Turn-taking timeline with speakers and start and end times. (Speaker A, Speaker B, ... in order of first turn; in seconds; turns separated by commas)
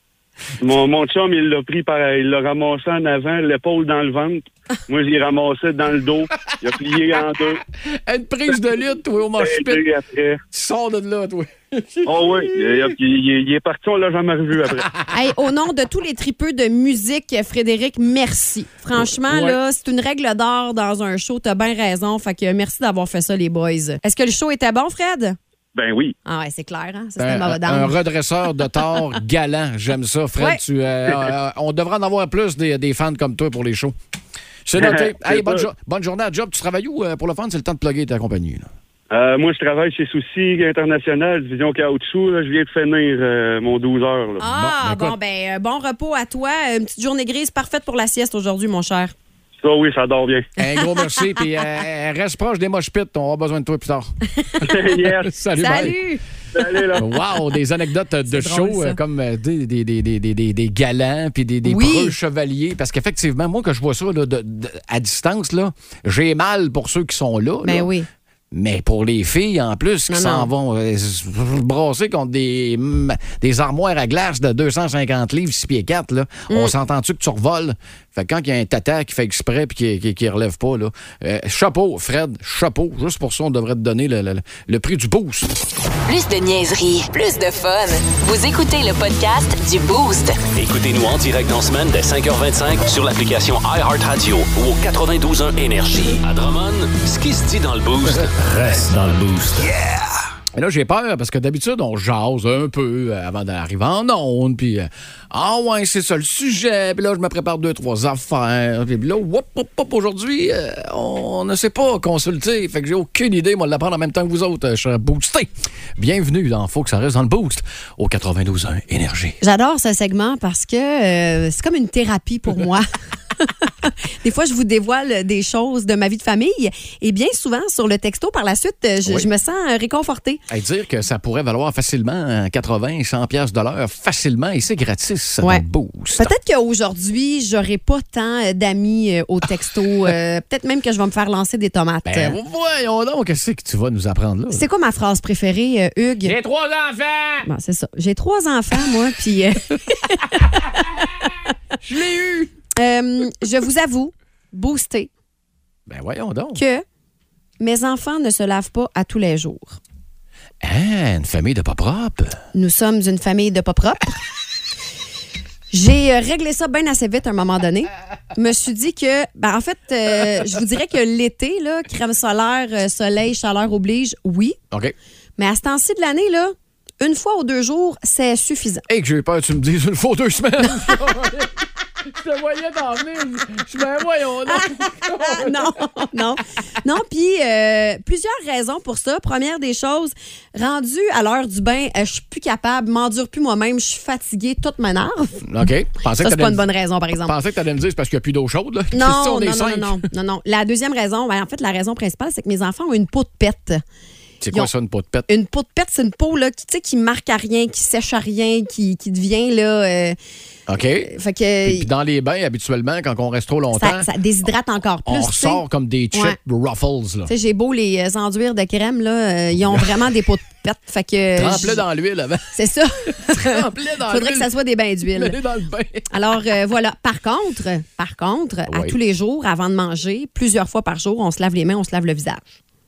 Speaker A: 0.6-7.6, Speaker B: 7.8-9.8, Speaker A: 9.4-10.4, Speaker B: 10.5-13.0, Speaker A: 12.1-14.9, Speaker B: 14.8-15.1, Speaker C: 15.1-25.4, Speaker B: 18.9-19.6, Speaker A: 25.8-26.1, Speaker C: 26.2-28.0, Speaker B: 27.2-34.0, Speaker B: 34.6-38.7, Speaker A: 34.8-35.6, Speaker A: 39.1-44.4, Speaker C: 44.4-49.1, Speaker B: 44.4-45.2, Speaker A: 49.6-50.5, Speaker B: 50.6-54.1, Speaker C: 50.7-51.3, Speaker C: 54.4-54.7, Speaker A: 54.6-55.3, Speaker B: 54.6-56.0, Speaker C: 55.6-56.2, Speaker A: 56.5-57.1, Speaker B: 56.9-67.9, Speaker C: 58.3-59.0, Speaker C: 61.6-62.1, Speaker C: 67.6-68.1, Speaker B: 68.5-85.5, Speaker C: 70.1-70.5, Speaker C: 76.5-76.7, Speaker D: 86.1-90.4, Speaker E: 90.5-99.8, Speaker B: 100.5-119.4, Speaker C: 119.4-130.4, Speaker B: 129.0-129.3, Speaker B: 130.5-136.3, Speaker C: 136.2-142.4, Speaker B: 142.1-144.7, Speaker C: 144.5-146.3, Speaker B: 146.2-147.5, Speaker C: 147.5-151.3, Speaker B: 150.3-150.8, Speaker B: 151.8-152.5, Speaker C: 152.8-155.1, Speaker B: 155.9-156.6, Speaker C: 156.6-156.8, Speaker C: 157.6-159.8, Speaker B: 160.6-162.4, Speaker C: 162.5-164.2, Speaker C: 165.7-174.6, Speaker C: 175.4-178.8, Speaker B: 178.9-185.9, Speaker C: 184.5-195.5, Speaker B: 195.4-200.1, Speaker C: 196.2-197.4, Speaker C: 198.9-203.8, Speaker B: 204.4-205.3, Speaker C: 205.3-210.2, Speaker B: 210.7-211.1, Speaker C: 211.0-211.9, Speaker B: 211.6-214.1, Speaker C: 213.7-216.4, Speaker B: 215.1-217.3, Speaker C: 217.3-221.8, Speaker B: 219.6-219.9, Speaker B: 221.4-222.5, Speaker C: 222.5-225.4, Speaker B: 223.1-224.5, Speaker B: 225.1-226.1, Speaker C: 226.1-232.5, Speaker B: 228.7-229.0